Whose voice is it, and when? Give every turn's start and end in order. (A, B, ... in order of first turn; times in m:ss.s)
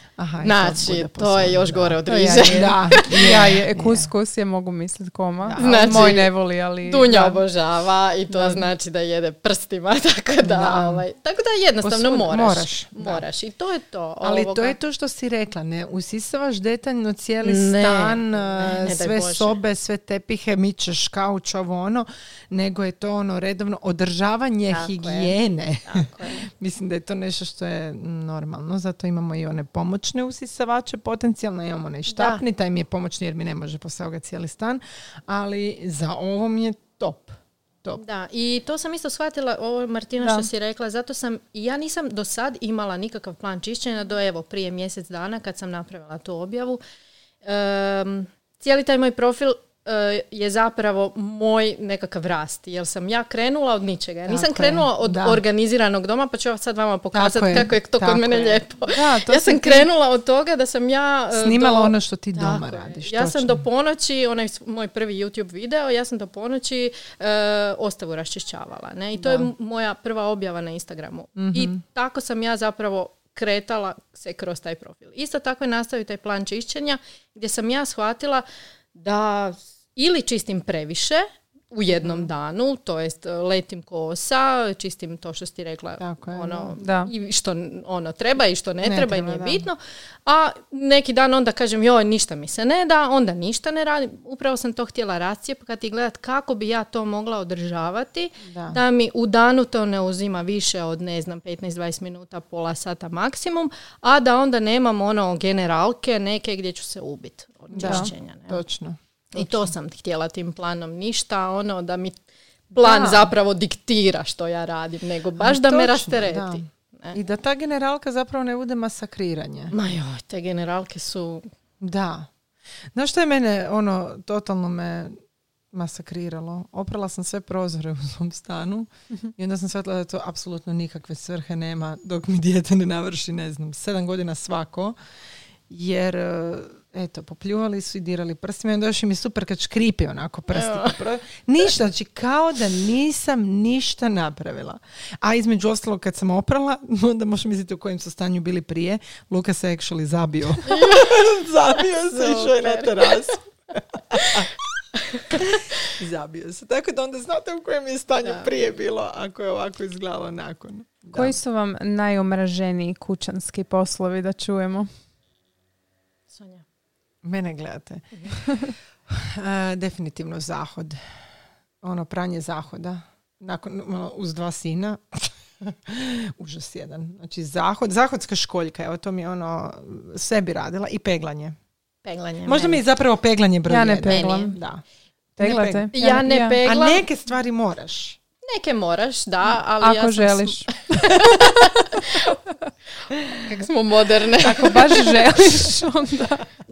0:00.2-0:04.1 A
0:00.4-0:03.4 B
0:02.0-0:07.4 C
0:05.4-0:05.9 A
0:05.6-0:14.8 B
0:08.4-0:08.6 C
0:10.4-0:11.0 A
0:11.8-0:13.2 A
0:14.2-0:38.0 A
0:17.4-0:19.6 B
0:24.7-0:25.3 B
0:25.8-0:26.4 B
0:32.1-0:32.4 B
0:38.0-0:46.8 B
0:40.2-0:40.5 C
0:47.4-1:48.6 B
0:54.3-0:55.4 A
0:57.1-0:58.6 A
0:58.9-0:59.9 C
1:01.3-1:03.6 A
1:09.2-1:09.5 A
1:11.4-1:11.8 A
1:26.0-1:26.7 A
1:26.8-1:27.1 C
1:28.8-1:29.6 A
1:38.4-1:38.8 A
1:47.7-1:49.7 A
1:47.8-1:48.1 C
1:49.3-1:52.2 B
1:52.7-1:57.2 B
1:52.8-1:53.3 A
1:55.4-1:59.7 A
1:59.7-2:01.4 B
2:01.8-2:02.3 A
2:02.9-2:05.2 A
2:05.7-2:15.0 A
2:15.7-2:34.5 A
2:20.5-2:21.0 B
2:30.6-2:31.2 B
2:31.8-2:33.3 B
2:34.1-2:34.4 B
2:35.0-2:35.8 B
2:35.3-2:41.4 A
2:38.2-2:38.5 B
2:41.1-2:44.9 C
2:46.3-2:46.6 B
2:47.2-2:48.6 A
2:49.1-2:51.0 A
2:51.8-3:01.6 A
3:02.0-3:02.8 B
3:02.4-3:04.8 A
3:03.6-3:04.6 C
3:04.0-3:04.6 B
3:05.4-3:05.9 A
3:05.4-3:06.6 C
3:05.9-3:07.0 B
3:06.6-3:08.2 A
3:08.4-3:12.4 B
3:09.8-3:11.6 C
3:13.2-3:13.6 A
3:13.3-3:15.2 B
3:14.4-3:16.5 C